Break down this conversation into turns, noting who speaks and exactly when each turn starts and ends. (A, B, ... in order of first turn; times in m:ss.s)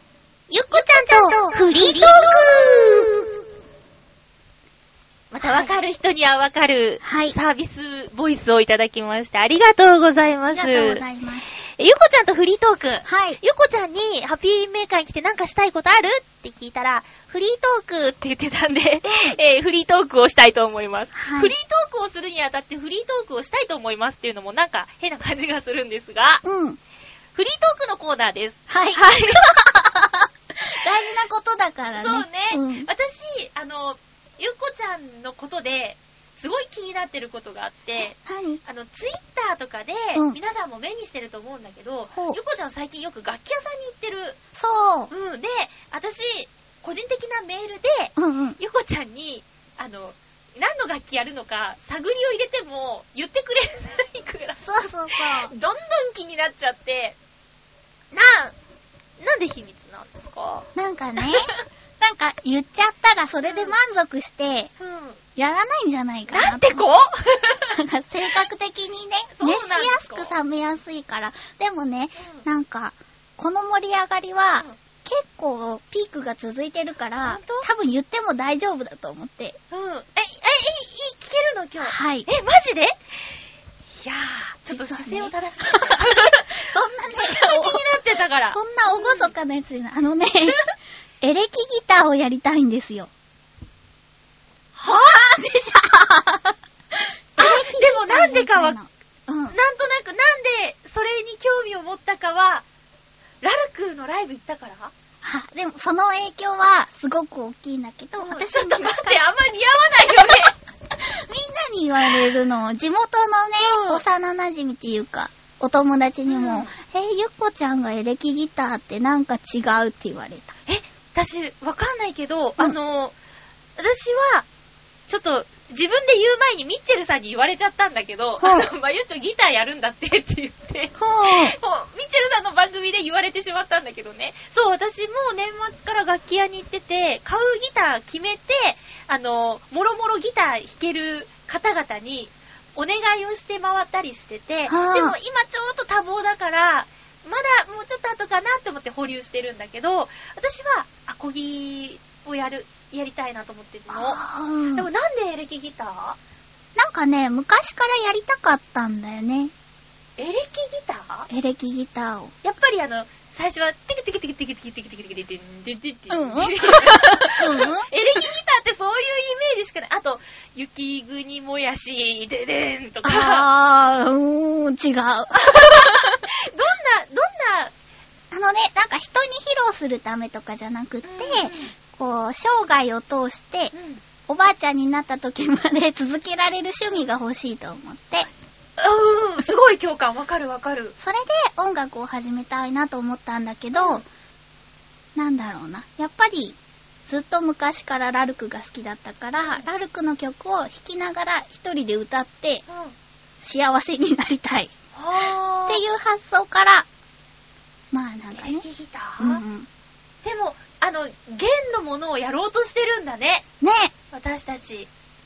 0:00.5-0:03.2 A
0:00.7-0:03.2 B
0:05.3-0:11.0 A
0:05.4-0:05.7 B
0:07.0-0:07.4 B
0:10.5-0:11.6 B
0:11.8-0:26.4 A
0:13.0-0:13.4 B
0:19.0-0:19.4 B
0:21.2-0:21.5 B
0:26.4-0:26.8 B
0:27.4-0:29.5 A
0:28.7-0:32.9 B
0:32.0-0:44.4 A
0:38.0-0:38.6 B
0:42.1-0:42.4 B
0:44.5-0:45.1 B
0:45.1-0:57.2 A
0:48.2-0:48.6 B
0:54.6-0:55.5 B
0:58.1-0:58.5 A
0:59.2-1:00.7 A
1:00.8-1:04.7 B
1:01.2-1:01.6 A
1:03.4-1:03.8 A
1:04.8-1:05.2 A
1:05.4-1:06.9 B
1:06.3-1:07.8 A
1:07.7-1:19.6 B
1:09.3-1:10.3 A
1:12.2-1:12.4 A
1:17.2-1:17.7 A
1:19.7-1:23.0 A
1:21.8-1:22.3 B
1:24.0-1:29.3 A
1:24.7-1:28.0 B
1:28.5-1:30.6 B
1:31.2-1:33.1 B
1:34.8-1:35.4 A
1:34.9-1:36.6 B
1:37.4-1:39.6 B
1:37.4-1:38.8 A
1:39.5-1:42.7 A
1:43.4-1:44.9 A
1:45.2-1:49.2 B
1:48.2-1:50.6 A
1:51.0-2:00.6 B
1:53.6-1:54.0 A
1:56.3-1:56.7 A
2:00.7-2:03.2 A
2:03.8-2:04.5 A
2:05.1-2:34.2 A
2:08.4-2:08.7 B
2:11.0-2:11.6 B
2:24.7-2:25.2 B
2:33.9-2:34.9 B
2:34.7-2:36.2 A
2:36.8-2:39.5 B
2:40.2-2:41.3 A
2:41.3-2:42.3 B
2:42.4-2:53.5 A
2:46.1-2:47.9 B
2:53.0-2:56.2 B
2:55.4-2:57.7 A
2:58.3-3:03.7 B
3:01.0-3:01.7 A
3:03.7-3:04.0 A
3:04.3-3:08.3 B
3:08.8-3:10.9 A
3:11.0-3:14.0 B
3:13.7-3:14.0 A
3:15.2-3:22.6 B
3:22.7-3:23.0 A
3:23.4-3:24.7 B
3:24.9-3:25.8 A
3:25.7-3:26.9 B
3:27.9-3:28.6 B
3:28.3-3:29.4 A
3:29.2-3:29.7 B
3:30.2-3:33.4 A
3:33.6-3:33.9 B
3:34.1-3:34.9 A